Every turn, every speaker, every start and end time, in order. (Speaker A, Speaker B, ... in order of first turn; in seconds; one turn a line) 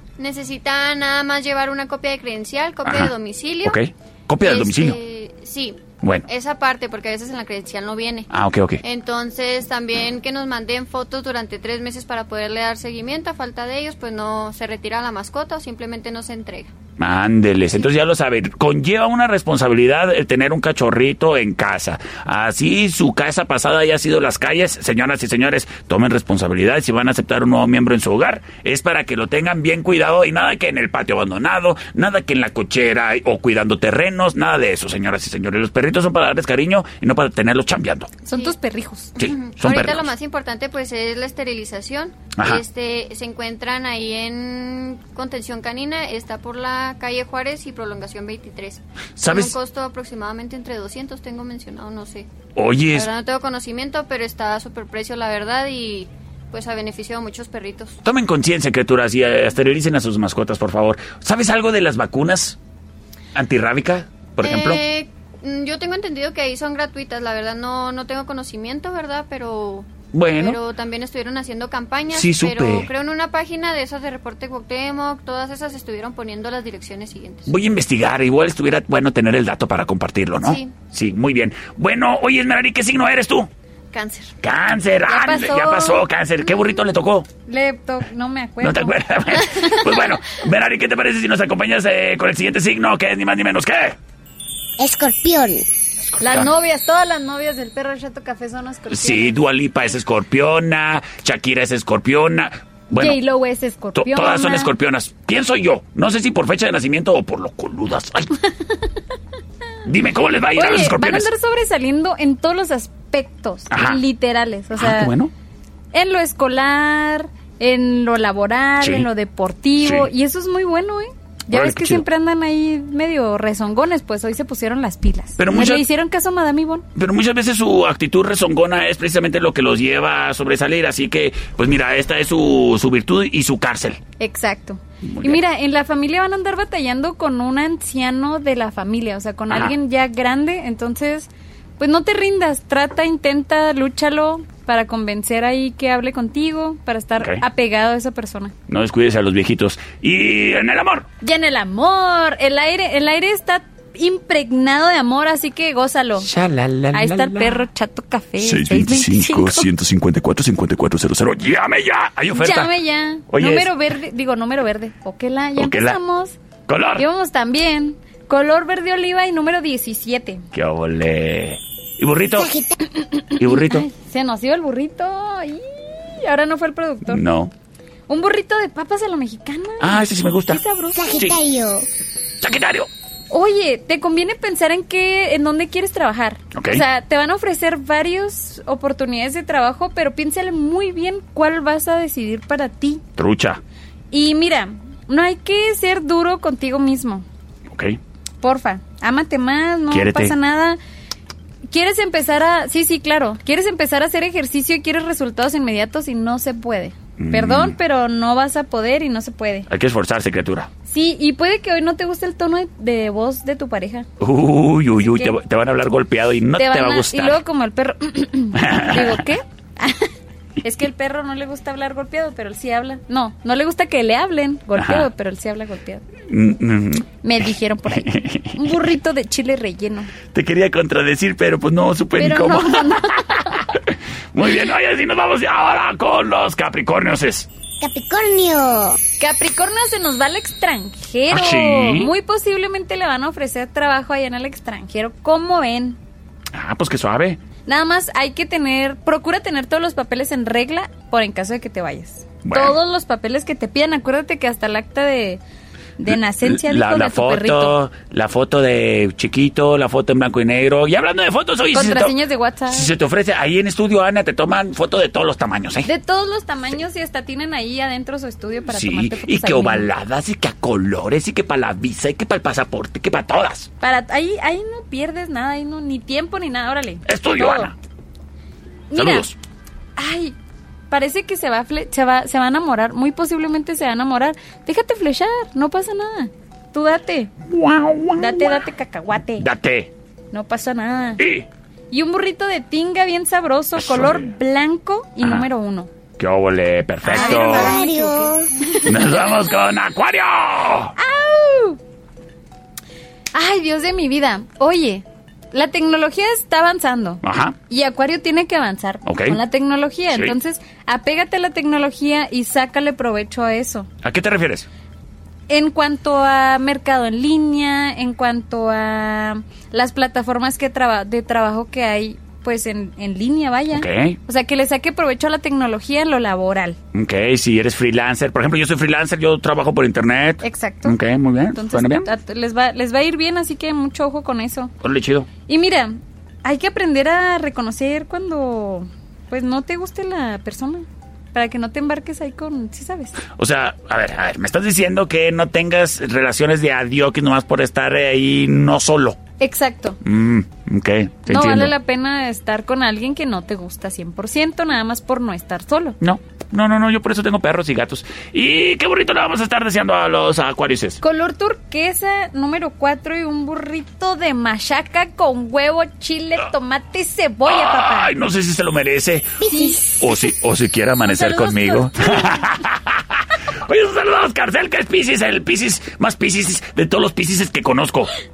Speaker A: 0.2-3.8
Speaker B: 2.8-3.1
Speaker B: 3.6-5.0
Speaker A: 4.4-8.3
Speaker B: 8.3-8.8
Speaker A: 8.8-16.7
Speaker B: 17.0-38.1
Speaker C: 38.2-39.1
Speaker A: 38.3-38.5
Speaker A: 39.1-52.3
Speaker B: 39.2-40.1
Speaker B: 42.3-42.6
Speaker B: 49.2-49.6
Speaker B: 52.5-53.1
Speaker A: 52.9-58.0
Speaker B: 58.0-62.6
Speaker B: 63.3-64.8
Speaker A: 64.4-77.5
Speaker B: 70.1-70.6
Speaker B: 72.1-72.9
Speaker B: 77.5-83.5
Speaker A: 80.4-80.7
Speaker A: 83.9-84.3
Speaker B: 84.4-87.3
Speaker C: 85.1-86.0
Speaker C: 87.5-89.0
Speaker B: 88.6-94.0
Speaker D: 94.8-95.6
Speaker B: 96.0-96.5
Speaker C: 96.2-99.4
Speaker B: 98.9-103.2
Speaker C: 102.9-104.7
Speaker B: 103.9-108.3
Speaker B: 109.8-111.3
Speaker C: 110.5-115.1
Speaker B: 113.7-114.0
Speaker B: 114.7-115.3
Speaker C: 115.9-126.8
Speaker B: 118.8-119.1
Speaker B: 119.8-120.1
Speaker B: 121.5-122.0
Speaker B: 125.4-125.8
Speaker B: 126.9-134.0
Speaker C: 134.2-148.5
Speaker B: 135.0-135.4
Speaker B: 147.2-147.4
Speaker B: 148.7-151.1
Speaker C: 151.2-156.3
Speaker B: 156.2-157.7
Speaker C: 156.9-159.7
Speaker B: 158.4-162.7
Speaker C: 162.3-166.4
Speaker B: 163.3-163.8
Speaker B: 165.6-166.0
Speaker B: 166.7-167.1
Speaker C: 167.0-170.4
Speaker B: 170.5-172.5
Speaker D: 172.3-172.7
Speaker C: 173.0-177.2
Speaker B: 173.3-173.9
Speaker B: 177.1-177.5
Speaker C: 178.1-181.2
Speaker B: 179.8-181.4
Speaker D: 180.9-181.9
Speaker B: 182.4-182.9
Speaker C: 183.3-193.0
Speaker B: 186.5-186.8
Speaker B: 193.2-193.6
Speaker C: 194.1-197.2
Speaker B: 197.7-198.0
Speaker C: 198.4-200.8
Speaker B: 199.9-200.3
Speaker C: 201.7-209.7
Speaker B: 207.2-207.8
Speaker B: 209.7-210.7
Speaker C: 210.8-214.1
Speaker B: 214.2-217.4
Speaker C: 215.0-215.3
Speaker C: 216.6-220.1
Speaker B: 218.5-219.3
Speaker C: 220.6-226.0
Speaker B: 224.8-225.1
Speaker B: 226.3-227.1
Speaker C: 227.2-230.1
Speaker B: 227.9-228.8
Speaker B: 230.3-237.5
Speaker C: 232.2-233.7
Speaker D: 237.8-239.0
Speaker C: 239.2-246.0
Speaker B: 241.3-242.1
Speaker B: 246.5-247.4
Speaker C: 247.7-255.4
Speaker B: 252.4-252.8
Speaker C: 256.0-257.8
Speaker B: 256.1-262.2
Speaker C: 261.7-262.9
Speaker B: 262.7-265.9
Speaker C: 265.8-269.9
Speaker B: 268.7-273.7
Speaker C: 273.8-277.7
Speaker B: 277.1-277.8
Speaker C: 278.9-279.3
Speaker B: 278.9-279.4
Speaker C: 280.0-280.3
Speaker C: 280.9-287.3
Speaker B: 287.4-288.6
Speaker C: 288.2-289.4
Speaker B: 289.4-289.9
Speaker C: 290.3-291.2
Speaker B: 291.2-291.5
Speaker C: 291.9-295.9
Speaker B: 293.8-294.4
Speaker B: 295.2-295.5
Speaker B: 296.2-297.8
Speaker C: 297.0-299.1
Speaker D: 297.1-298.5
Speaker B: 298.8-300.9
Speaker C: 300.9-301.8
Speaker C: 303.3-313.9
Speaker B: 307.2-307.6
Speaker B: 309.0-309.4
Speaker B: 310.1-310.4
Speaker B: 314.0-314.7
Speaker C: 315.5-326.8
Speaker B: 323.7-324.2
Speaker B: 326.9-332.1
Speaker C: 330.4-331.0
Speaker C: 331.5-334.7
Speaker B: 334.8-335.3
Speaker C: 335.5-343.2
Speaker B: 343.4-349.2
Speaker C: 349.4-350.0
Speaker B: 350.0-351.7
Speaker C: 351.3-356.0
Speaker B: 356.0-361.0
Speaker C: 361.0-368.1
Speaker B: 367.4-369.4
Speaker D: 369.4-370.3
Speaker C: 369.4-370.0
Speaker B: 370.0-378.1
Speaker C: 371.0-372.5